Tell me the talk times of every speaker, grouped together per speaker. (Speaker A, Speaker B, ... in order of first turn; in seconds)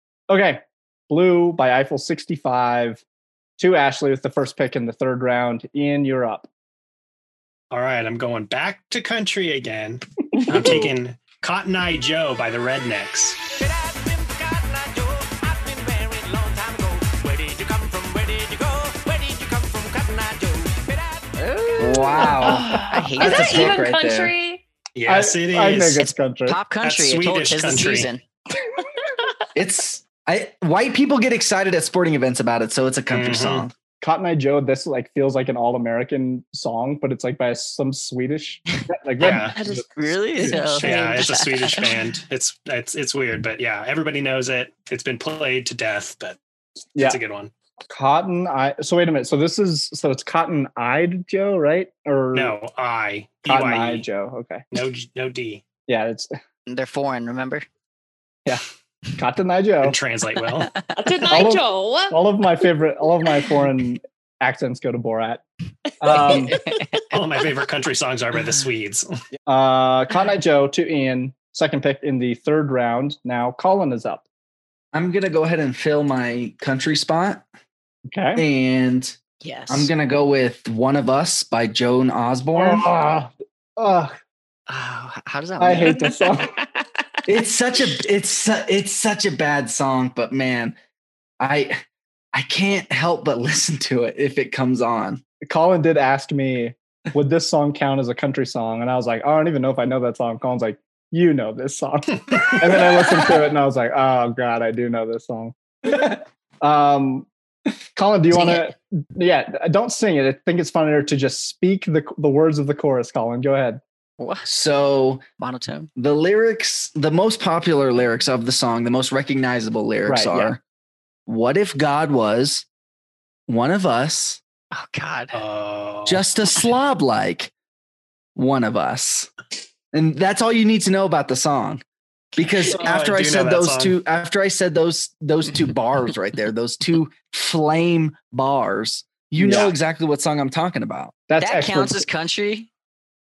Speaker A: 0.3-3.0, 3.6-6.5, 25.1-26.6, 34.0-40.9, 47.9-52.5, 53.5-54.6, 55.9-56.3, 59.2-60.0, 61.3-65.4, 66.0-66.5, 69.5-74.2, 78.1-78.4, 82.5-84.1, 85.6-86.5, 95.4-105.5, 106.6-107.3, 107.9-113.8, 120.0-120.5, 139.4-139.7, 141.3-142.0
Speaker B: 7.7-13.4, 24.9-26.0, 26.8-28.1, 33.1-33.7, 39.2-39.5, 40.8-46.4, 47.0-47.5, 52.3-54.0, 54.7-55.6, 59.8-60.8, 67.1-69.1, 125.3-126.2, 132.7-133.9
Speaker C: 10.5-10.8, 22.4-24.6, 61.0-62.2
Speaker D: 13.6-21.4
Speaker E: 21.4-23.8, 26.0-28.2, 39.9-42.0, 56.7-57.6, 66.2-67.0, 79.4-79.9, 84.7-86.2, 108.3-108.7, 114.2-114.5, 115.4-115.9, 124.7-125.4, 141.4-142.7
Speaker F: 21.8-22.7, 23.2-24.3, 29.5-33.7, 74.9-77.4, 78.3-79.2, 79.7-82.8, 87.2-90.8, 91.4-91.8, 92.3-95.2, 114.5-115.2, 116.0-120.6, 121.3-122.7, 123.5-124.4, 126.0-127.5, 128.3-129.3, 129.9-131.8, 132.3-141.1